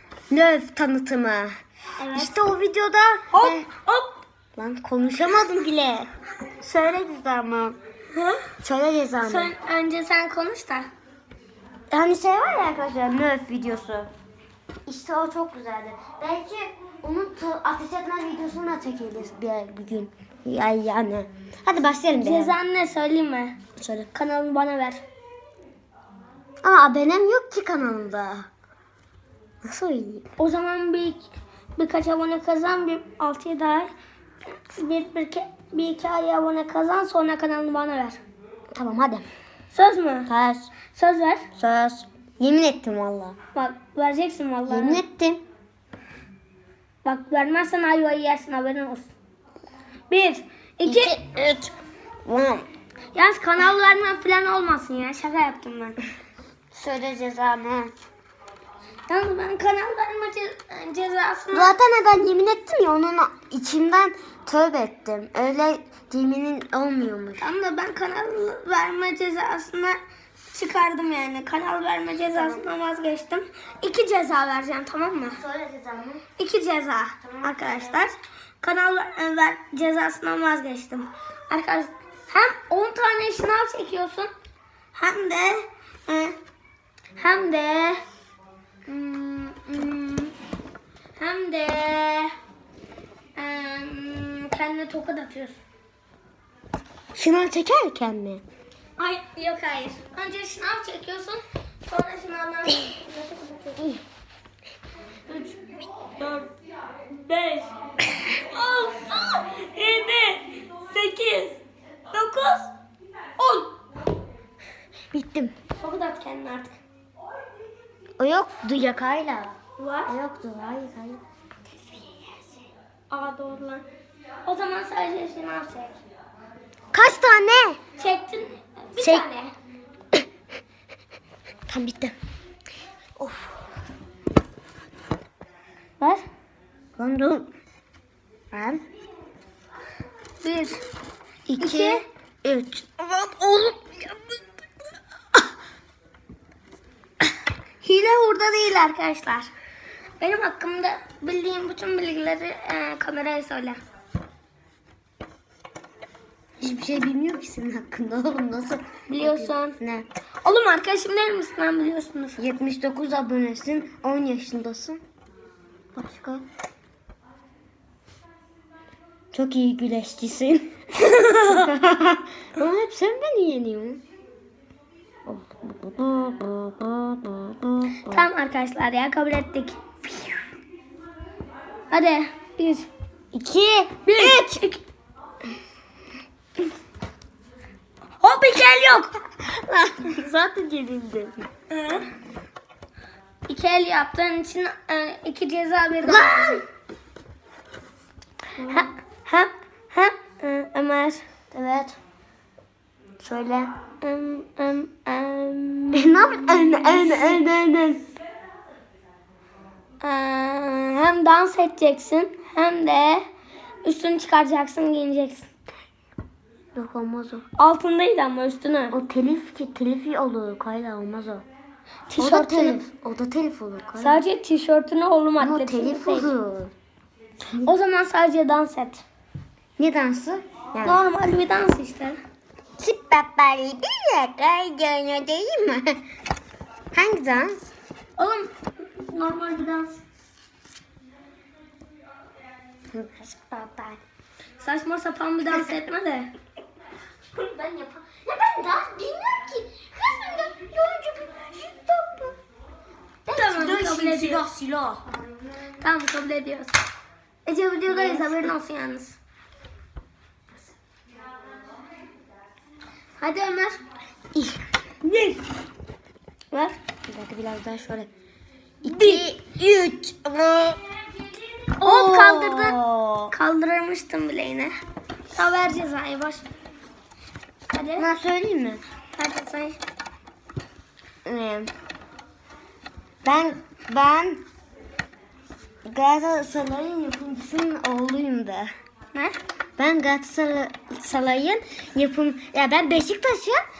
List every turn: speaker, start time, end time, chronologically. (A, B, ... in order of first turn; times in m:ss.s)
0:00.3-0:01.5 A
0:02.0-0:02.3 B
0:02.1-0:03.6 A
0:03.3-0:04.2 B
0:04.6-0:07.8 A
0:08.1-0:08.5 B
0:08.6-0:09.5 A
0:09.2-0:10.9 B
0:11.9-0:14.1 A
0:14.9-0:22.5 A
0:22.2-0:23.6 B
0:23.8-0:24.1 A
0:24.1-0:25.0 B
0:26.6-0:28.5 A
0:29.6-0:30.3 A
0:30.4-0:33.9 B
0:34.6-0:38.2 B
0:38.7-0:39.2 A
0:39.7-0:40.3 B
0:40.3-0:40.7 A
0:40.9-0:41.4 B
0:41.6-0:43.4 A
0:43.5-0:45.0 B
0:44.7-0:45.4 A
0:47.0-0:49.1 B
0:50.1-0:51.2 B
0:50.8-0:51.7 A
0:52.2-0:52.6 A
0:53.1-0:56.0 B
0:56.7-0:57.9 A
0:59.1-1:01.7 B
1:01.5-1:07.5 A
1:07.4-1:10.0 B
1:10.5-1:15.4 B
1:12.3-1:12.7 A
1:15.3-1:16.2 A
1:16.4-1:24.3 B
1:17.2-1:18.0 A
1:24.9-1:26.4 B
1:27.2-1:28.0 B
1:28.9-1:30.3 B
1:31.2-1:32.3 B
1:33.4-1:35.6 B
1:37.1-1:38.4 A
1:39.0-1:43.9 B
1:45.3-1:46.5 B
1:47.1-1:47.7 B
1:48.2-1:51.6 B
1:52.1-1:52.7 B
1:53.4-1:53.7 B
1:55.1-1:55.5 A
1:55.7-1:56.8 B
1:58.2-1:59.5 A
1:59.8-2:00.1 B
2:00.0-2:01.2 A
2:03.1-2:03.8 B
2:04.4-2:06.0 B
2:06.9-2:07.8 A
2:08.0-2:09.5 B
2:09.0-2:09.2 A
2:11.7-2:12.1 A
2:13.2-2:13.5 A
2:16.0-2:16.2 B
2:17.0-2:17.5 A
2:18.5-2:18.8 A
2:20.4-2:20.8 B
2:21.4-2:24.4 A
2:21.6-2:22.0 B
2:27.8-2:29.5 B
2:30.2-2:33.8 B
2:36.6-2:40.0 A
2:39.1-2:39.8 B
2:40.4-2:42.4 B
2:42.4-2:45.0 A
2:45.9-2:46.4 A
2:49.3-2:50.7 A
2:51.0-2:51.6 B
2:51.3-2:54.0 A
2:55.2-2:58.2 A
2:58.0-3:00.0 B
3:01.9-3:02.9 B
3:03.3-3:04.6 A
3:04.0-3:04.8 B
3:08.2-3:09.1 B
3:09.4-3:11.5 A
3:11.7-3:12.1 B
3:13.5-3:16.6 B
3:16.0-3:16.6 A
3:18.6-3:18.9 A
3:18.6-3:21.2 B
3:21.5-3:22.0 A
3:23.2-3:23.7 A
3:24.0-3:27.4 B
3:25.9-3:28.0 A
3:30.0-3:33.2 B
3:33.8-3:35.5 B
3:36.7-3:37.4 A
3:37.6-3:39.0 B
3:38.9-3:41.4 A
3:42.1-3:42.8 B
3:42.2-3:44.2 A
3:44.0-3:46.3 B
3:45.4-3:46.7 A
3:47.6-3:49.0 B
3:49.8-3:51.0 A
3:50.8-3:52.2 B
3:52.8-3:56.0 A
3:56.9-3:57.7 A
3:58.2-4:00.0 B
4:02.9-4:04.0 A
4:04.6-4:06.3 B
4:07.3-4:12.3 A
4:13.2-4:15.5 A
4:13.3-4:14.4 B
4:15.8-4:16.7 B
4:17.4-4:19.2 B
4:17.9-4:18.5 A
4:23.2-4:23.8 B
4:24.3-4:25.4 A
4:27.1-4:28.1 A
4:28.8-4:30.8 A
4:28.8-4:29.2 B
4:31.7-4:33.3 A
4:31.8-4:32.8 B
4:33.3-4:34.7 B
4:35.3-4:36.4 B
4:37.7-4:38.1 B
4:38.0-4:38.8 A
4:39.2-4:39.8 B
4:41.2-4:41.7 A
4:43.2-4:44.4 A
4:45.8-4:48.7 A
4:49.8-4:53.6 A